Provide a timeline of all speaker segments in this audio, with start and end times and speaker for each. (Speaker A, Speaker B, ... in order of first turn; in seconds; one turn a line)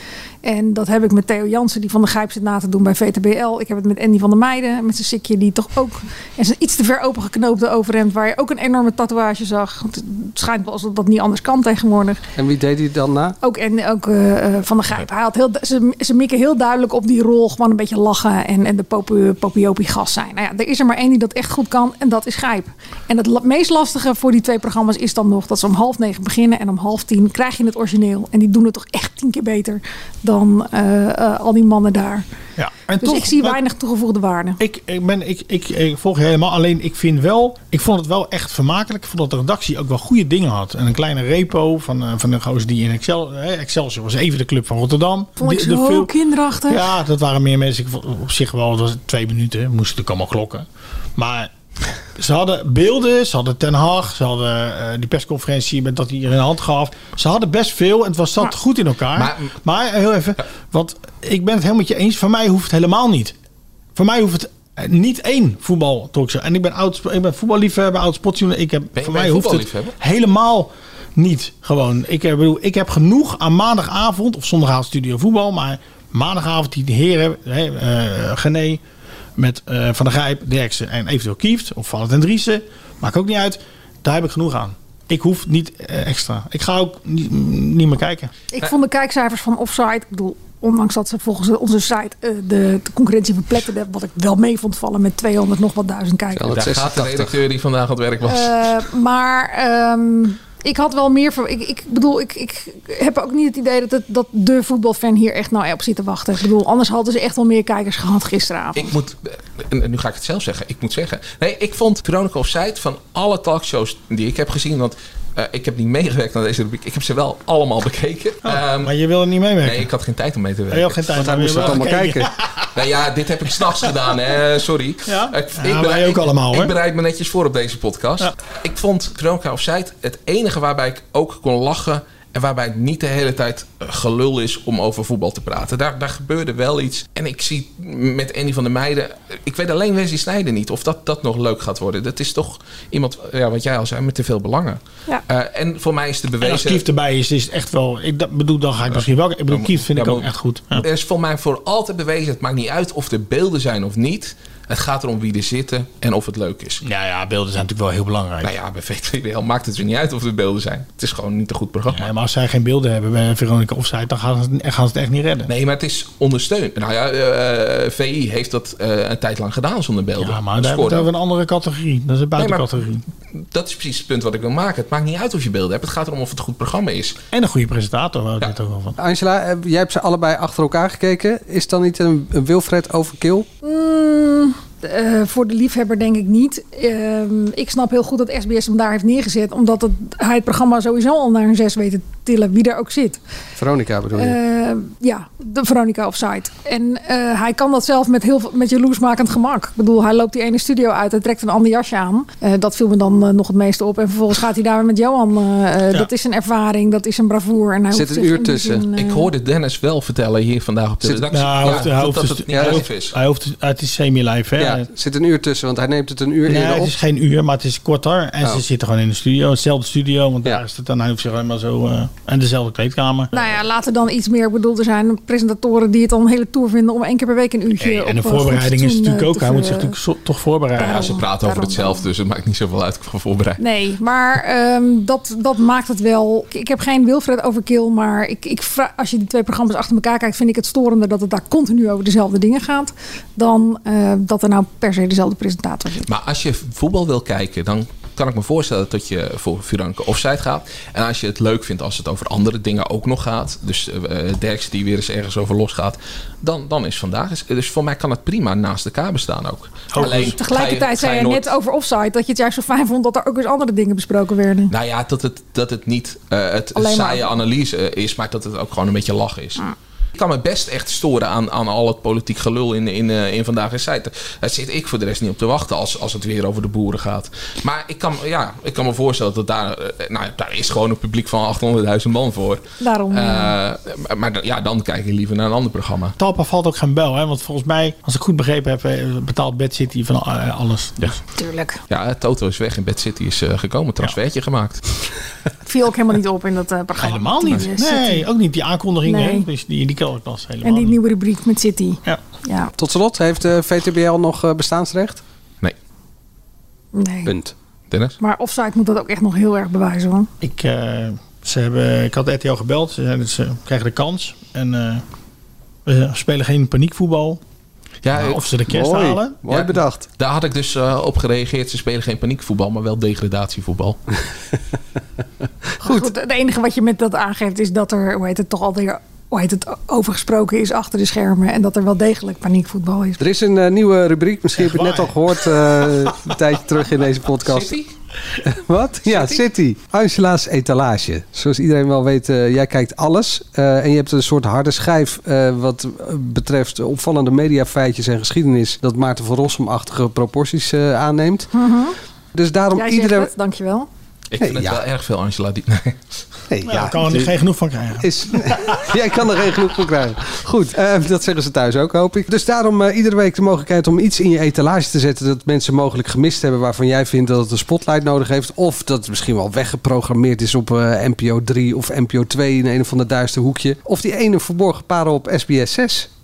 Speaker A: 0.4-12.2
Speaker B: 12.4-13.3
Speaker A: 13.4-32.2
Speaker C: 32.6-33.6
Speaker A: 33.0-34.6
Speaker C: 34.6-46.1
Speaker A: 45.4-46.9
Speaker C: 46.7-50.6
Speaker C: 51.2-51.5
Speaker C: 52.1-63.3
Speaker D: 59.2-59.5
Speaker C: 64.0-78.8
Speaker D: 69.0-70.0
Speaker C: 79.4-88.3
Speaker A: 88.5-96.5
Speaker B: 96.3-97.3
Speaker D: 96.5-98.6
Speaker A: 98.2-108.9
Speaker D: 108.8-118.9
Speaker C: 118.4-119.9
Speaker D: 119.6-121.8
Speaker C: 120.7-122.7
Speaker B: 121.2-122.3
Speaker D: 122.7-146.8
Speaker C: 125.1-126.8
Speaker C: 146.4-150.9
Speaker D: 148.9-156.8
Speaker C: 156.8-158.5
Speaker D: 158.4-162.1
Speaker C: 161.9-165.5
Speaker D: 165.5-171.1
Speaker C: 170.2-173.0
Speaker D: 172.4-172.7
Speaker D: 173.3-177.2
Speaker C: 177.3-179.0
Speaker B: 179.0-183.5
Speaker A: 183.6-193.2
Speaker B: 193.6-194.4
Speaker A: 194.1-209.3
Speaker B: 207.9-208.8
Speaker D: 208.9-213.2
Speaker C: 211.3-214.9
Speaker B: 212.5-212.8
Speaker B: 214.6-216.9
Speaker C: 216.5-223.3
Speaker A: 223.3-230.0
Speaker C: 227.8-231.1
Speaker A: 230.8-232.1
Speaker D: 230.8-233.6
Speaker A: 233.6-246.1
Speaker D: 246.1-261.5
Speaker C: 259.9-260.4
Speaker A: 260.0-264.7
Speaker D: 264.7-269.6
Speaker A: 266.8-267.3
Speaker D: 270.1-286.1
Speaker A: 282.8-283.5
Speaker C: 286.2-291.1
Speaker A: 291.4-291.8
Speaker D: 291.9-294.8
Speaker A: 295.6-298.2
Speaker C: 297.0-301.0
Speaker A: 299.0-299.5
Speaker A: 300.6-302.7
Speaker B: 302.8-305.2
Speaker A: 306.9-307.3
Speaker B: 307.2-307.5
Speaker D: 307.9-308.1
Speaker A: 308.2-310.3
Speaker C: 310.4-315.0
Speaker C: 315.9-317.4
Speaker D: 318.0-318.4
Speaker C: 318.1-319.4
Speaker B: 318.7-320.0
Speaker D: 319.5-324.0
Speaker A: 325.8-333.2
Speaker B: 325.8-326.1
Speaker B: 333.2-337.8
Speaker C: 334.6-335.2
Speaker D: 337.4-337.9
Speaker B: 338.4-351.5
Speaker D: 339.1-339.4
Speaker A: 351.5-351.9
Speaker B: 352.3-353.3
Speaker A: 352.7-353.9
Speaker D: 354.3-356.2
Speaker B: 354.4-354.8
Speaker B: 356.5-357.3
Speaker C: 356.6-358.9
Speaker B: 358.0-376.1